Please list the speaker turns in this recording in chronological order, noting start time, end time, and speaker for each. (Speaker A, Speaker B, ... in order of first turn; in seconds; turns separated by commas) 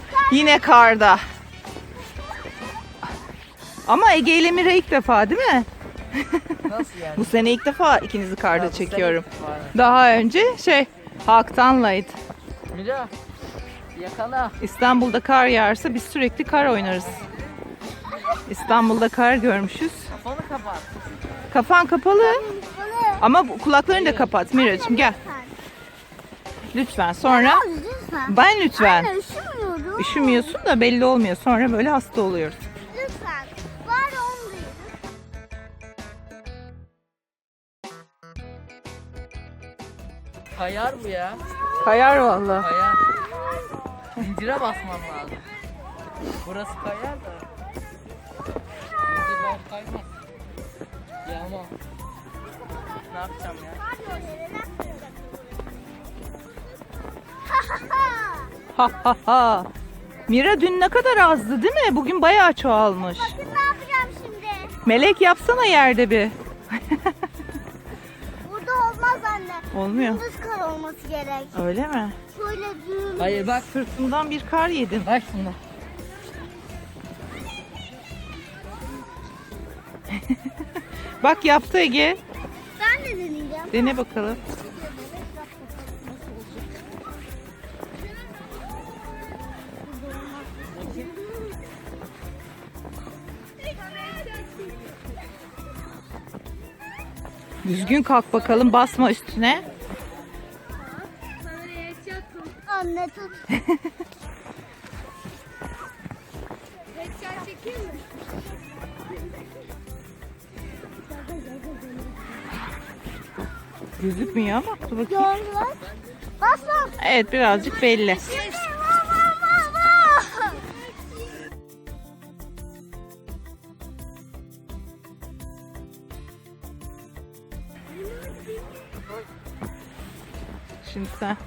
Speaker A: 0.1-0.6, Speaker B: 0.2-1.2, Speaker B: 3.9-6.6, Speaker C: 6.7-7.4, Speaker B: 7.2-12.2, Speaker C: 8.5-9.8, Speaker C: 12.7-13.1, Speaker C: 13.9-14.6, Speaker B: 14.6-17.2, Speaker B: 18.5-20.1, Speaker C: 20.1-20.9, Speaker B: 21.5-22.4, Speaker A: 22.2-23.2, Speaker B: 23.2-25.2, Speaker C: 23.9-24.5, Speaker A: 24.5-25.5, Speaker B: 26.7-27.7, Speaker A: 27.2-30.6, Speaker B: 28.3-29.1, Speaker B: 30.0-32.6, Speaker A: 32.9-34.9, Speaker C: 40.5-41.5, Speaker B: 41.8-42.7, Speaker C: 42.6-43.0, Speaker C: 44.2-45.5, Speaker C: 46.4-47.5, Speaker C: 49.1-50.1, Speaker C: 51.2-51.7, Speaker C: 53.0-53.8, Speaker A: 53.5-55.1, Speaker A: 57.5-58.5, Speaker B: 58.7-59.7, Speaker B: 60.3-63.4, Speaker A: 63.2-64.8, Speaker B: 64.8-67.1, Speaker A: 68.4-71.5, Speaker B: 69.7-70.2, Speaker B: 71.5-72.2, Speaker A: 72.3-73.5, Speaker C: 73.2-73.7, Speaker B: 73.6-75.1, Speaker C: 75.0-75.6, Speaker B: 80.1-80.5, Speaker B: 81.2-82.2, Speaker A: 82.8-84.0, Speaker B: 83.7-84.4, Speaker A: 94.1-94.5, Speaker B: 97.6-99.7, Speaker A: 102.4-103.5, Speaker A: 107.0-108.0, Speaker B: 114.0-115.3, Speaker A: 115.1-115.8, Speaker A: 116.4-117.0, Speaker B: 117.0-118.4, Speaker A: 118.1-120.8, Speaker B: 130.8-131.4